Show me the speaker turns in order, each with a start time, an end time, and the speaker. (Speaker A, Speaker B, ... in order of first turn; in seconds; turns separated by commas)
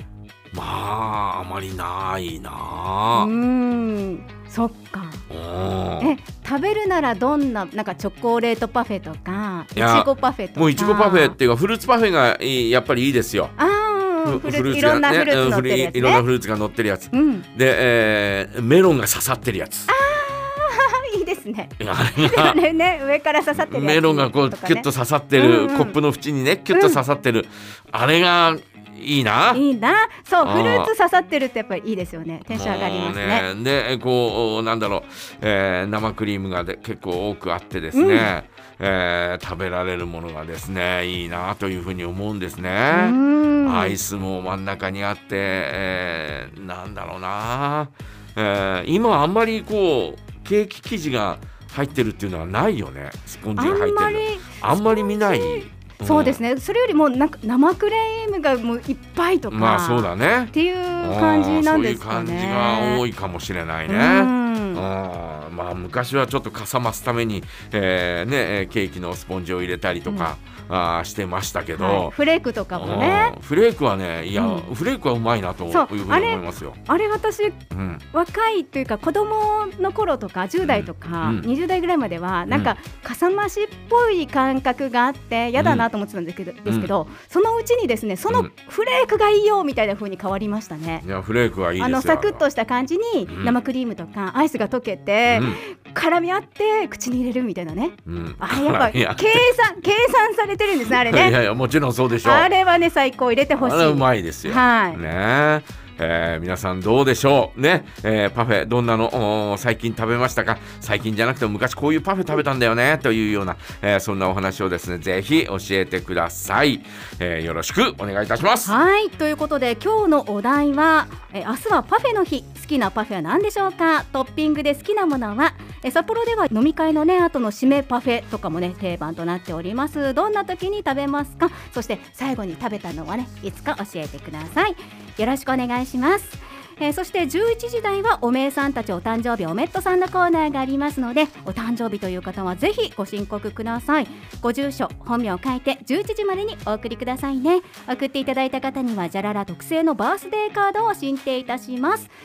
Speaker A: 0.5-3.3, Speaker B: 3.1-5.2, Speaker A: 5.3-6.2, Speaker B: 6.0-11.4, Speaker A: 9.8-13.6, Speaker B: 13.6-16.2, Speaker A: 14.3-19.9, Speaker B: 17.1-17.5, Speaker B: 19.9-26.0, Speaker A: 21.8-22.6, Speaker A: 23.5-29.6, Speaker B: 26.7-27.0, Speaker B: 29.5-33.5, Speaker A: 30.4-30.9, Speaker A: 32.5-56.4, Speaker B: 37.9-38.3, Speaker B: 42.9-44.0, Speaker B: 53.6-63.0, Speaker A: 59.5-72.1, Speaker B: 63.9-64.8, Speaker B: 71.8-73.3, Speaker A: 72.7-76.8, Speaker B: 74.3-74.7, Speaker B: 75.7-77.6, Speaker A: 77.7-78.0, Speaker B: 78.1-91.0, Speaker A: 80.6-81.5, Speaker A: 82.5-82.7, Speaker A: 85.6-85.9, Speaker A: 91.0-92.4, Speaker B: 91.8-101.4, Speaker A: 93.3-93.5, Speaker A: 95.3-95.6, Speaker A: 98.1-99.5, Speaker A: 100.9-102.5, Speaker B: 102.2-105.0, Speaker A: 103.6-118.7, Speaker B: 118.7-152.1